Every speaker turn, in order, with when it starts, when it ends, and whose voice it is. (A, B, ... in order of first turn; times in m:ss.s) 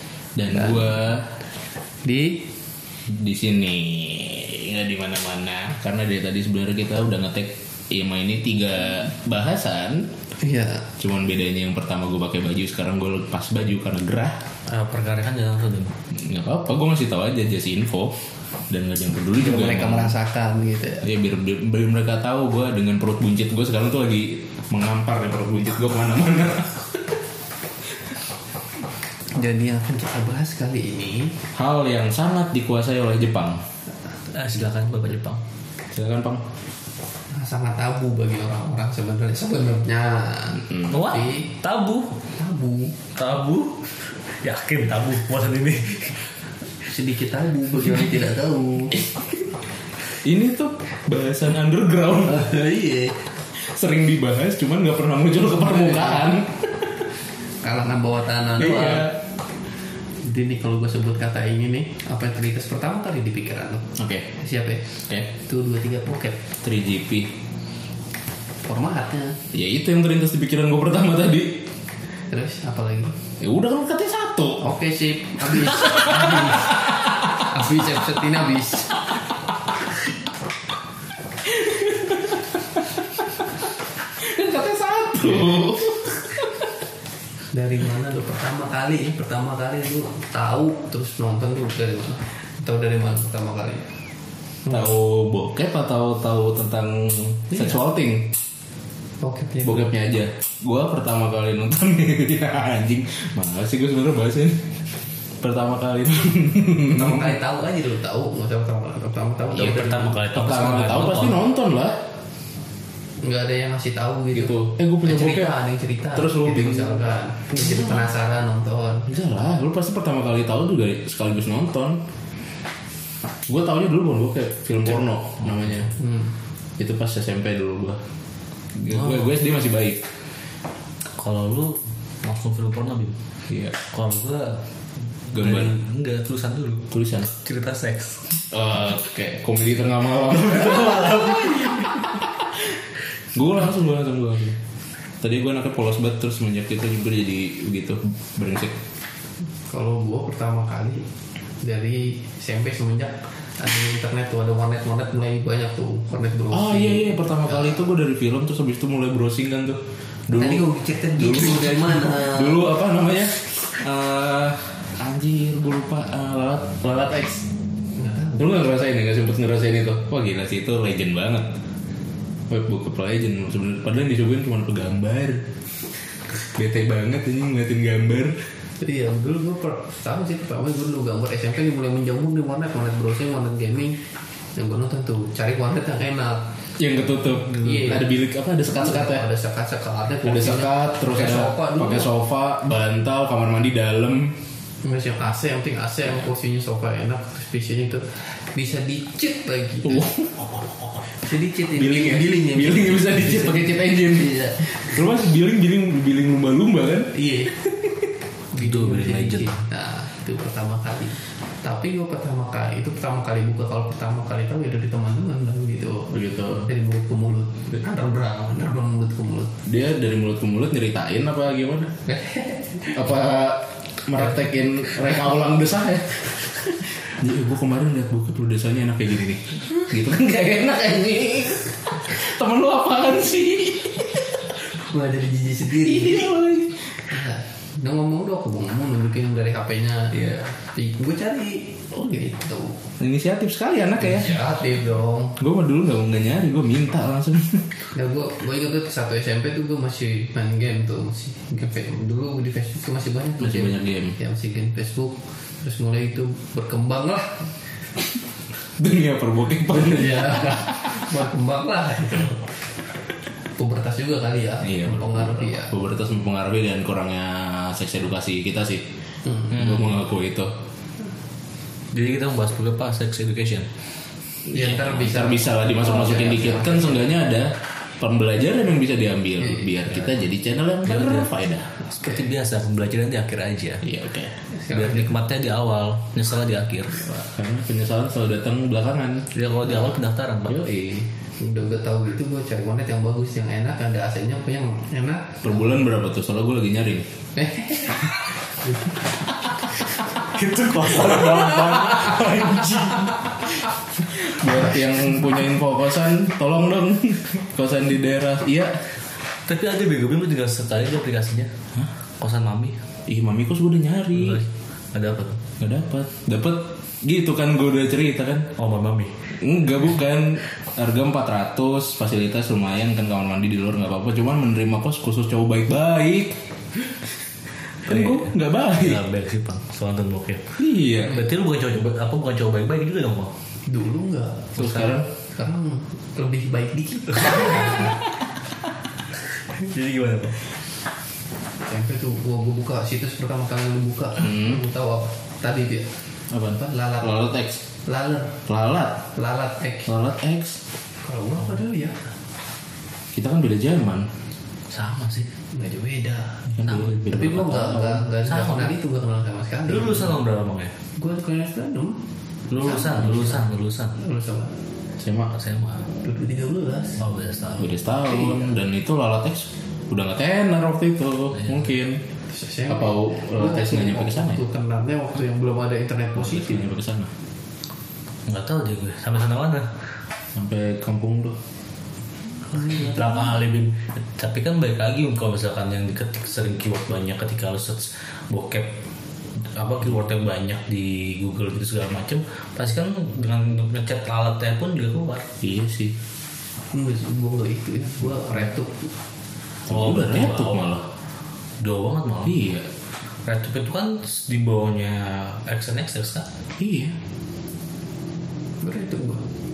0:00.4-0:01.3 A
0:00.5-0:01.0 B
0:02.0-0:02.4 B
0:03.1-0:10.1 A
0:10.4-0:10.9 B
0:11.0-0:14.4 A
0:14.7-0:16.0 C
0:16.1-0:20.2 A
0:19.4-0:21.1 B
0:21.0-0:27.2 A
0:29.4-0:31.4 B
0:31.5-0:33.6 A
0:34.3-0:35.4 C
0:35.9-0:36.4 A
0:37.3-0:41.5 B
0:40.9-0:42.2 C
0:42.3-0:43.0 B
0:43.2-0:46.3 C
0:46.8-0:49.0 B
0:50.2-0:52.5 A
0:52.2-0:53.2 B
0:53.5-0:57.0 A
0:55.6-0:56.3 B
0:57.6-0:59.1 B
0:58.6-0:59.2 A
1:00.2-1:06.4 B
1:04.0-1:04.3 A
1:06.6-1:07.3 A
1:08.7-1:09.4 B
1:09.5-1:11.6 A
1:12.3-1:13.2 B
1:13.4-1:14.6 A
1:14.6-1:19.0 B
1:15.8-1:16.6 A
1:21.4-1:22.8 A
1:24.1-1:26.7 A
1:27.5-1:33.9 B
1:34.6-1:34.9 B
1:34.7-1:38.3 A
1:39.2-1:39.9 B
1:39.6-1:44.8 A
1:45.4-1:47.3 A
1:46.8-1:50.2 B
1:49.6-1:51.4 C
1:50.3-1:52.0 A
1:53.2-1:59.1 B
1:54.3-1:55.5 A
1:56.2-1:57.0 A
1:59.1-2:02.0 A
2:03.5-2:06.0 A
2:06.0-2:06.3 B
2:06.8-2:08.0 A
2:08.8-2:10.0 A
2:08.9-2:09.2 C
2:11.1-2:13.2 C
2:13.5-2:13.7 A
2:13.8-2:14.6 C
2:15.3-2:18.3 C
2:15.3-2:15.7 A
2:16.9-2:17.3 A
2:18.5-2:22.7 A
2:20.6-2:22.2 C
2:23.3-2:24.6 A
2:25.2-2:28.8 A
2:29.7-2:31.1 B
2:31.6-2:37.8 B
2:36.5-2:47.4 A
2:40.4-2:42.6 B
2:48.0-2:48.5 B
2:48.4-2:51.5 A
2:52.5-2:55.5 A
2:56.3-2:58.5 A
2:58.8-3:04.0 B
3:04.6-3:06.4 B
3:06.8-3:09.3 A
3:07.6-3:08.1 B
3:08.7-3:12.1 B
3:10.2-3:14.4 A
3:14.8-3:20.1 B
3:19.8-3:21.0 A
3:21.1-3:24.9 B
3:21.7-3:28.0 A
3:27.1-3:27.5 B
3:28.5-3:39.5 B
3:28.6-3:29.6 C
3:36.1-3:36.7 A
3:39.7-3:41.9 A
3:42.1-3:43.0 B
3:42.9-3:54.4 A
3:54.7-3:56.4 B
3:55.8-3:56.9 A
3:57.0-4:02.8 B
4:03.0-4:04.4 A
4:04.0-4:05.4 B
4:05.4-4:07.7 A
4:07.9-4:17.5 B
4:13.4-4:14.2 A
4:18.8-4:21.0 A
4:19.7-4:22.4 B
4:23.6-4:25.7 B
4:24.6-4:28.9 A
4:29.5-4:30.5 A
4:31.9-4:33.7 C
4:34.5-4:41.7 A
4:34.5-4:37.0 B
4:40.9-4:41.3 C
4:41.9-4:43.8 C
4:43.8-4:44.4 A
4:44.5-4:45.1 B
4:44.7-4:47.0 C
4:47.0-4:49.3 A
4:49.3-4:50.6 C
4:50.5-4:51.1 A
4:51.4-4:55.6 B
4:55.4-4:57.1 A
4:57.4-4:58.3 B
5:00.2-5:03.2 C
5:01.0-5:02.6 A
5:04.1-5:08.9 A
5:09.5-5:11.5 C
5:12.2-5:12.8 C
5:13.1-5:14.4 A
5:14.1-5:15.4 C
5:15.6-5:18.5 A
5:18.6-5:19.2 C
5:19.4-5:27.1 A
5:27.8-5:29.1 A
5:27.9-5:33.4 C
5:30.6-5:31.2 A
5:33.7-5:37.9 B
5:34.6-5:35.1 A
5:34.6-5:34.9 C
5:39.4-5:40.4 C
5:41.6-5:45.9 B
5:44.2-5:44.6 A
5:46.3-5:47.6 A
5:46.5-5:47.2 B
5:47.9-5:48.4 B
5:48.5-5:49.0 A
5:49.2-5:49.9 B
5:49.9-5:50.6 A
5:51.0-5:52.1 B
5:53.1-5:54.1 A
5:54.7-5:55.3 C
5:55.5-5:56.5 B
5:56.5-5:58.1 A
5:56.7-5:57.0 C
5:57.1-6:00.2 B
5:58.2-5:58.7 C
5:59.7-6:00.8 C
6:01.0-6:02.0 B
6:02.5-6:04.0 C
6:02.6-6:04.5 B
6:05.0-6:05.3 A
6:05.3-6:05.9 C
6:06.0-6:07.0 B
6:07.0-6:07.7 C
6:07.6-6:12.0 A
6:08.1-6:08.5 B
6:12.3-6:16.7 B
6:12.7-6:14.4 A
6:16.2-6:17.1 A
6:18.3-6:19.7 C
6:20.4-6:21.4 A
6:22.5-6:23.2 B
6:22.6-6:28.7 C
6:29.4-6:35.3 C
6:35.4-6:36.0 A
6:36.7-6:38.9 B
6:39.7-6:40.7 C
6:39.7-6:40.9 A
6:41.6-6:42.4 C
6:42.2-6:42.7 A
6:43.2-6:46.3 C
6:46.6-6:47.0 A
6:48.6-6:49.2 B